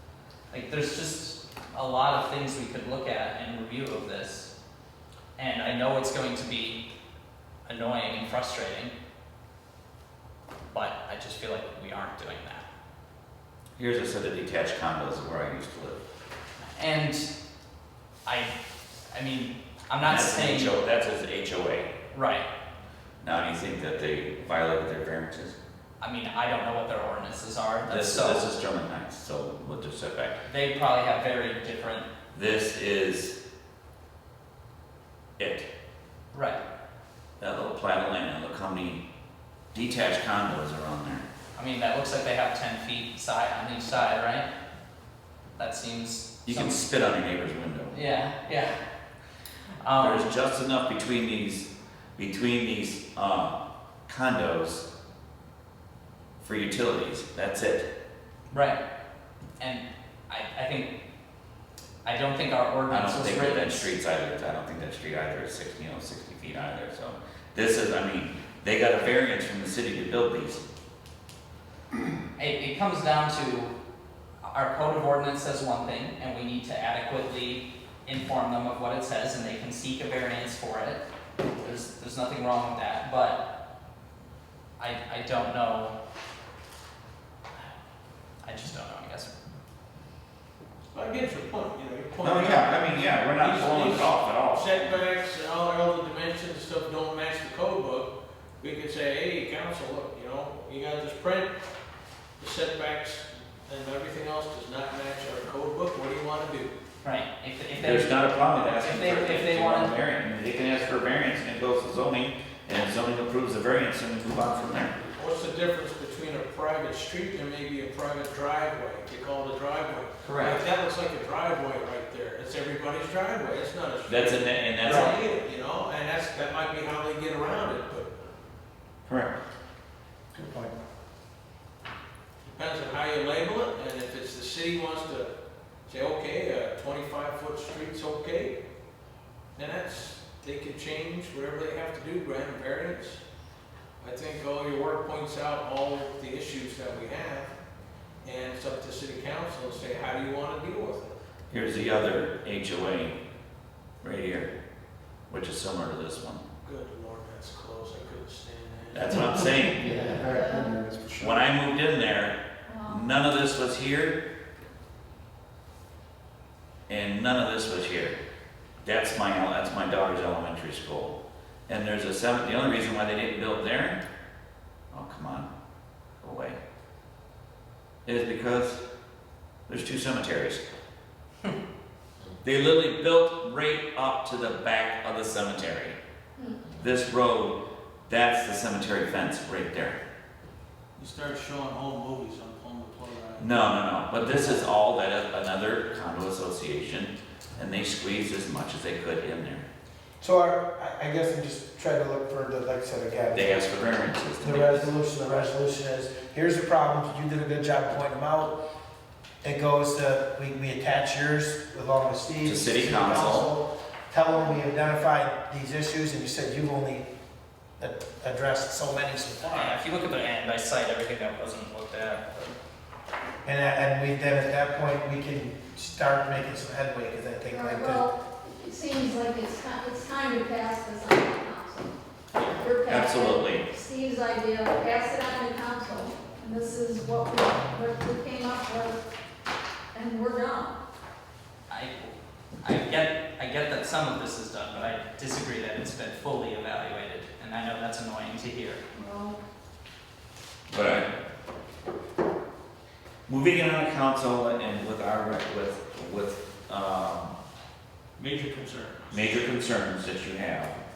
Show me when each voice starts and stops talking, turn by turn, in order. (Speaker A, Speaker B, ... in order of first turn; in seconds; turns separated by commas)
Speaker A: 0.5-4.5, Speaker A: 5.4-6.8, Speaker A: 7.7-8.9, Speaker A: 10.7-12.7, Speaker B: 13.8-16.0, Speaker A: 16.8-17.3, Speaker A: 18.2-18.5, Speaker A: 19.1-20.8, Speaker B: 20.0-21.9, Speaker A: 22.1-22.5, Speaker B: 23.2-25.6, Speaker A: 26.0-28.5, Speaker B: 27.9-30.4, Speaker A: 30.4-32.1, Speaker B: 32.3-33.4, Speaker B: 35.4-35.7, Speaker A: 36.3-36.6, Speaker B: 37.4-39.0, Speaker B: 39.7-41.2, Speaker A: 41.5-44.5, Speaker A: 45.6-46.8, Speaker B: 46.5-48.0, Speaker A: 47.9-48.8, Speaker A: 49.8-50.3, Speaker B: 50.0-54.9, Speaker B: 56.4-57.9, Speaker A: 58.5-58.8, Speaker A: 59.6-60.9, Speaker A: 62.0-63.9, Speaker B: 62.9-70.6, Speaker A: 72.4-73.7, Speaker A: 74.5-81.0, Speaker A: 81.6-83.4, Speaker A: 84.8-85.9, Speaker A: 88.4-89.3, Speaker C: 90.9-101.5, Speaker B: 92.2-94.9, Speaker C: 102.4-106.7, Speaker A: 107.0-109.9, Speaker B: 107.8-114.9, Speaker C: 115.0-128.1, Speaker B: 120.2-120.6, Speaker B: 124.0-125.1, Speaker B: 129.1-129.3, Speaker D: 130.3-130.7, Speaker C: 132.4-135.3, Speaker C: 135.9-138.6, Speaker C: 139.6-143.2, Speaker C: 144.0-147.5, Speaker C: 148.2-151.1, Speaker B: 151.5-153.2, Speaker B: 154.0-154.5, Speaker B: 155.3-156.4, Speaker C: 156.6-161.2, Speaker B: 158.9-159.9, Speaker E: 160.2-160.7, Speaker B: 161.2-164.2, Speaker E: 162.7-163.0, Speaker B: 166.9-168.2, Speaker B: 168.8-174.0, Speaker B: 174.9-175.5, Speaker B: 176.2-176.6, Speaker B: 178.1-178.8, Speaker B: 179.7-180.6, Speaker B: 182.4-186.0, Speaker E: 186.4-186.7, Speaker B: 186.8-190.0, Speaker C: 191.0-193.6, Speaker B: 193.4-199.6, Speaker D: 200.2-208.6, Speaker B: 203.3-204.9, Speaker D: 209.4-217.1, Speaker B: 212.4-213.5, Speaker D: 217.8-219.8, Speaker A: 219.5-222.6, Speaker D: 223.4-228.0, Speaker E: 227.5-231.9, Speaker B: 232.4-233.6, Speaker E: 232.5-239.0, Speaker E: 239.9-240.8, Speaker A: 241.7-248.8, Speaker E: 248.9-249.4, Speaker B: 250.7-251.1, Speaker B: 253.3-257.4, Speaker C: 258.1-259.5, Speaker B: 259.1-260.8